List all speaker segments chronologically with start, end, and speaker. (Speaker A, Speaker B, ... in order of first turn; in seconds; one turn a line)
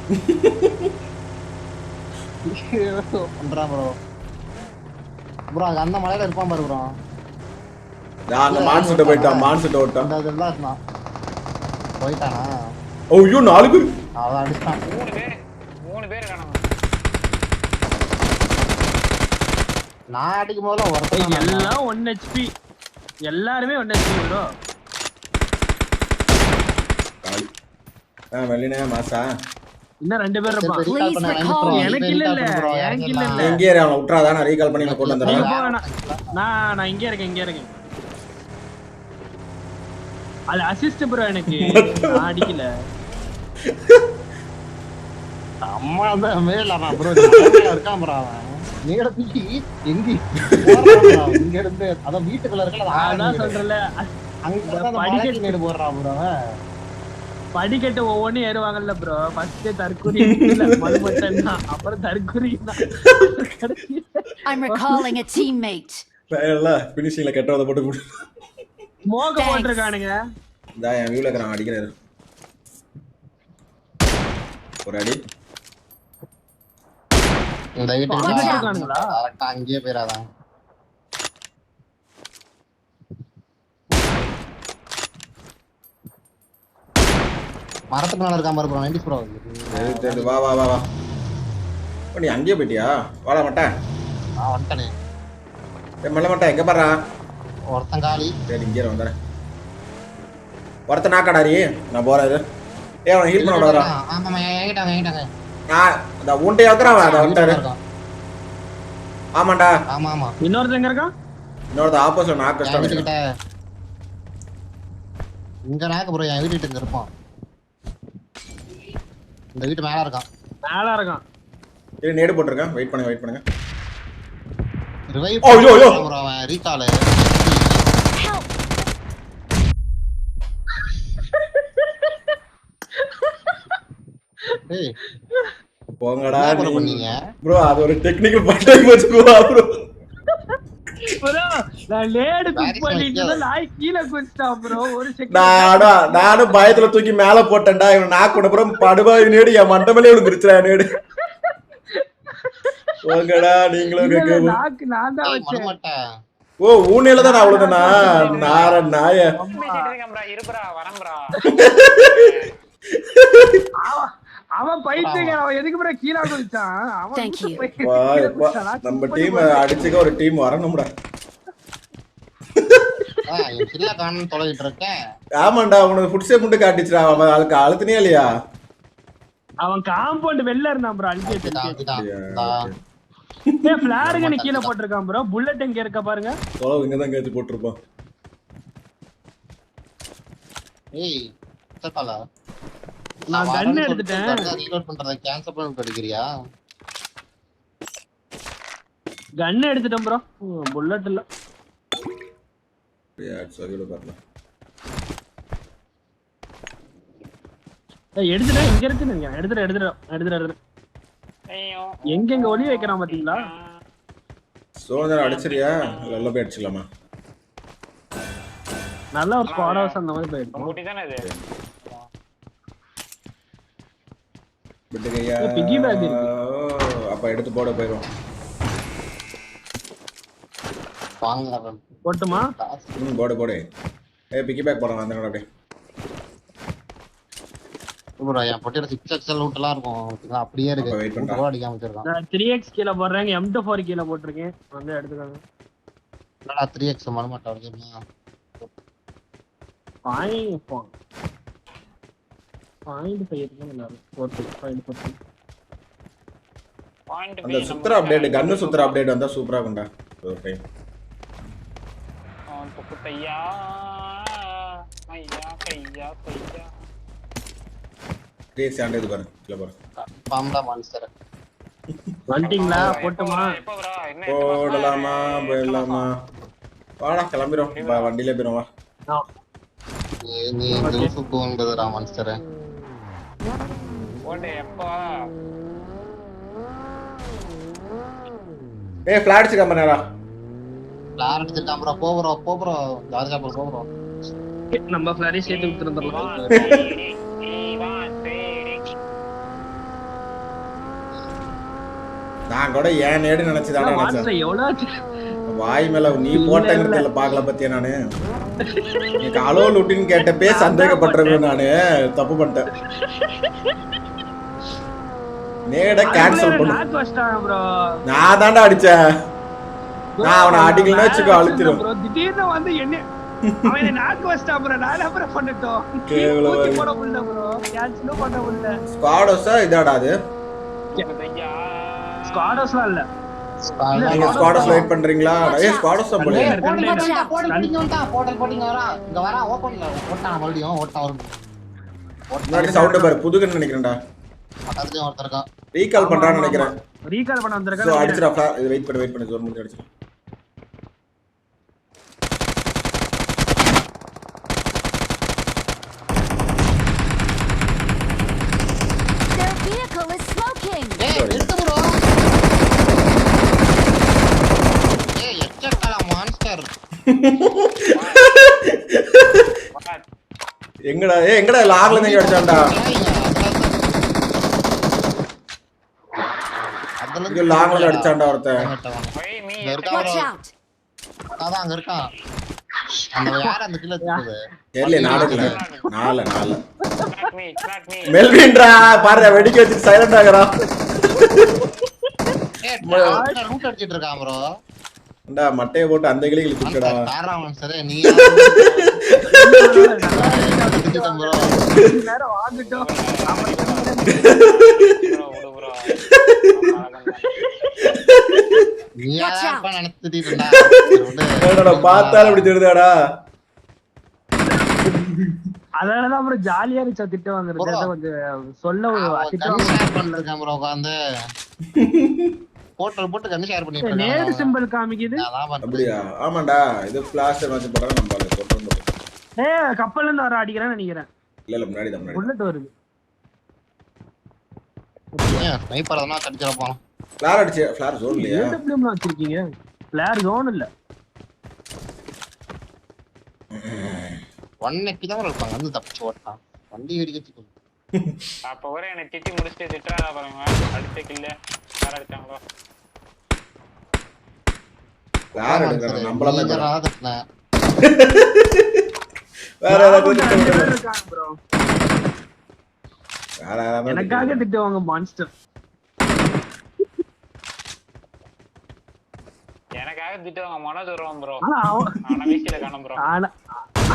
Speaker A: 0.4-0.7
Speaker B: 2.8-3.9
Speaker B: 5.5-6.9
Speaker A: 8.3-10.1
Speaker B: 8.5-10.8
Speaker B: 12.0-12.5
Speaker A: 13.1-13.8
Speaker B: 14.2-14.8
Speaker C: 14.8-15.3
Speaker C: 15.9-16.6
Speaker B: 20.1-21.7
Speaker D: 21.1-22.5
Speaker D: 23.3-24.4
Speaker A: 28.3-29.3
Speaker D: 30.0-30.8
Speaker B: 30.5-33.6
Speaker E: 30.9-31.9
Speaker D: 31.7-33.6
Speaker A: 33.4-35.5
Speaker B: 34.8-36.2
Speaker D: 35.2-35.8
Speaker D: 36.4-37.7
Speaker D: 40.5-42.7
Speaker A: 41.6-42.5
Speaker B: 45.7-53.5
Speaker A: 47.1-47.6
Speaker A: 50.5-51.1
Speaker D: 52.9-54.1
Speaker B: 54.5-56.3
Speaker D: 54.7-55.6
Speaker D: 57.5-64.9
Speaker A: 60.2-61.1
Speaker A: 63.0-63.3
Speaker E: 64.5-66.0
Speaker A: 66.3-68.0
Speaker D: 69.1-70.1
Speaker E: 69.3-69.9
Speaker A: 70.8-71.9
Speaker A: 74.8-75.2
Speaker B: 77.8-80.2
Speaker D: 78.1-79.1
Speaker E: 78.2-78.7
Speaker B: 87.9-90.4
Speaker A: 89.7-90.8
Speaker A: 92.2-93.7
Speaker B: 94.4-94.9
Speaker A: 96.0-96.9
Speaker B: 97.7-98.4
Speaker A: 98.5-99.1
Speaker A: 100.9-102.4
Speaker A: 103.1-103.9
Speaker B: 103.4-105.3
Speaker A: 105.7-107.6
Speaker B: 106.8-107.8
Speaker A: 109.4-109.7
Speaker B: 109.9-110.3
Speaker D: 110.4-111.1
Speaker A: 111.7-113.1
Speaker B: 112.6-113.2
Speaker B: 115.7-117.1
Speaker B: 119.6-120.3
Speaker D: 120.7-121.2
Speaker A: 122.0-123.4
Speaker B: 125.1-127.8
Speaker A: 125.4-126.0
Speaker E: 128.2-128.5
Speaker D: 133.1-133.6
Speaker A: 136.0-139.7
Speaker B: 136.3-137.2
Speaker D: 141.1-146.9
Speaker B: 142.6-143.4
Speaker A: 145.3-150.8
Speaker D: 152.4-152.7
Speaker A: 153.0-154.6
Speaker D: 153.9-155.7
Speaker B: 155.2-155.9
Speaker A: 156.6-159.2
Speaker D: 157.2-158.7
Speaker C: 158.0-158.8
Speaker D: 159.4-159.9
Speaker C: 159.5-161.3
Speaker A: 161.5-162.2
Speaker C: 162.1-162.5
Speaker A: 163.2-163.6
Speaker D: 163.8-170.1
Speaker B: 164.9-165.4
Speaker E: 167.2-167.7
Speaker A: 167.8-170.9
Speaker B: 173.3-174.9
Speaker A: 175.4-178.3
Speaker D: 179.6-181.8
Speaker B: 181.3-182.6
Speaker A: 181.9-182.8
Speaker D: 183.7-186.3
Speaker B: 184.1-184.7
Speaker A: 186.6-187.8
Speaker B: 191.8-192.2
Speaker D: 193.3-194.5
Speaker B: 193.3-196.3
Speaker D: 199.4-201.2
Speaker A: 203.2-204.2
Speaker D: 208.3-210.6
Speaker C: 211.5-213.8
Speaker D: 212.1-213.4
Speaker A: 214.8-216.8
Speaker C: 215.0-216.4
Speaker D: 219.2-220.8
Speaker C: 219.5-219.9
Speaker C: 220.6-221.2
Speaker A: 224.9-228.1
Speaker D: 225.4-226.3
Speaker B: 231.2-232.9
Speaker D: 232.1-232.5
Speaker A: 233.0-233.6
Speaker A: 234.3-235.4
Speaker B: 238.2-242.1
Speaker A: 240.8-241.4
Speaker D: 242.1-245.4
Speaker B: 246.5-248.0
Speaker D: 250.1-250.9
Speaker D: 252.9-255.2
Speaker C: 257.1-259.0
Speaker A: 257.4-260.6
Speaker C: 262.5-263.4
Speaker C: 265.1-266.7
Speaker A: 268.6-269.7
Speaker B: 270.1-271.1
Speaker D: 272.3-273.5
Speaker C: 272.4-276.1
Speaker A: 274.3-276.1
Speaker A: 277.0-278.6
Speaker C: 277.8-278.1
Speaker B: 280.3-282.4
Speaker D: 280.8-281.1
Speaker C: 284.3-285.0
Speaker A: 289.1-290.0
Speaker B: 291.2-293.9
Speaker D: 294.8-296.7
Speaker C: 295.4-298.8
Speaker A: 302.5-304.3
Speaker D: 303.8-304.8
Speaker A: 305.5-308.0
Speaker D: 306.3-307.1
Speaker A: 309.2-312.6
Speaker D: 310.5-311.4
Speaker D: 313.1-313.5
Speaker A: 315.7-316.8
Speaker D: 316.1-317.6
Speaker A: 318.1-319.0
Speaker D: 320.2-323.0
Speaker A: 320.2-321.8
Speaker A: 323.4-323.7
Speaker D: 323.6-328.7
Speaker A: 326.1-326.9
Speaker A: 328.9-330.1
Speaker C: 331.0-332.7
Speaker D: 332.3-333.0
Speaker B: 333.7-334.9
Speaker D: 333.9-334.9
Speaker A: 334.1-336.6
Speaker E: 335.4-337.4
Speaker B: 336.2-341.3
Speaker D: 336.3-337.7
Speaker B: 342.3-343.1
Speaker A: 342.5-344.0
Speaker B: 344.7-345.4
Speaker A: 345.7-346.7
Speaker D: 346.0-348.2
Speaker A: 347.8-349.9
Speaker E: 359.3-361.0
Speaker B: 361.0-361.9
Speaker A: 361.1-361.5
Speaker B: 365.2-366.7
Speaker A: 367.1-369.4
Speaker C: 367.9-368.2
Speaker C: 369.8-370.0
Speaker A: 370.9-372.7
Speaker B: 371.8-373.8
Speaker B: 377.0-380.3
Speaker A: 377.3-378.6
Speaker C: 379.2-380.2
Speaker E: 379.9-380.5
Speaker B: 381.4-382.1
Speaker D: 382.9-383.5
Speaker B: 383.2-385.6
Speaker A: 384.8-386.6
Speaker C: 385.1-385.9
Speaker C: 387.1-388.2
Speaker A: 388.1-390.6
Speaker D: 388.8-389.6
Speaker D: 391.0-391.7
Speaker A: 391.3-391.6
Speaker B: 392.6-394.4
Speaker A: 392.9-393.2
Speaker D: 393.1-393.4
Speaker A: 395.3-397.0
Speaker B: 396.6-398.6
Speaker A: 398.2-399.8
Speaker D: 399.3-404.3
Speaker B: 400.1-401.6
Speaker C: 402.5-406.0
Speaker A: 404.2-404.5
Speaker C: 406.5-407.5
Speaker A: 408.1-408.6
Speaker B: 409.0-412.5
Speaker E: 409.2-409.7
Speaker A: 411.4-412.9
Speaker D: 415.8-419.9
Speaker B: 417.6-417.9
Speaker B: 419.0-420.9
Speaker A: 421.8-422.3
Speaker B: 422.8-424.5
Speaker D: 423.8-425.2
Speaker B: 425.2-425.9
Speaker A: 425.6-428.9
Speaker D: 429.4-431.1
Speaker A: 431.5-432.3
Speaker D: 432.1-432.7
Speaker D: 435.2-435.4
Speaker B: 435.4-436.8
Speaker A: 437.2-438.6
Speaker D: 438.1-439.4
Speaker D: 439.9-440.7
Speaker A: 443.6-444.2
Speaker B: 444.6-447.5
Speaker C: 448.5-452.4
Speaker B: 455.4-457.2
Speaker A: 455.4-456.7
Speaker A: 457.9-458.6
Speaker A: 459.6-460.7
Speaker D: 459.7-461.4
Speaker A: 463.4-464.4
Speaker D: 463.9-465.3
Speaker C: 469.8-471.4
Speaker D: 471.4-472.0
Speaker C: 472.1-473.1
Speaker D: 473.1-473.3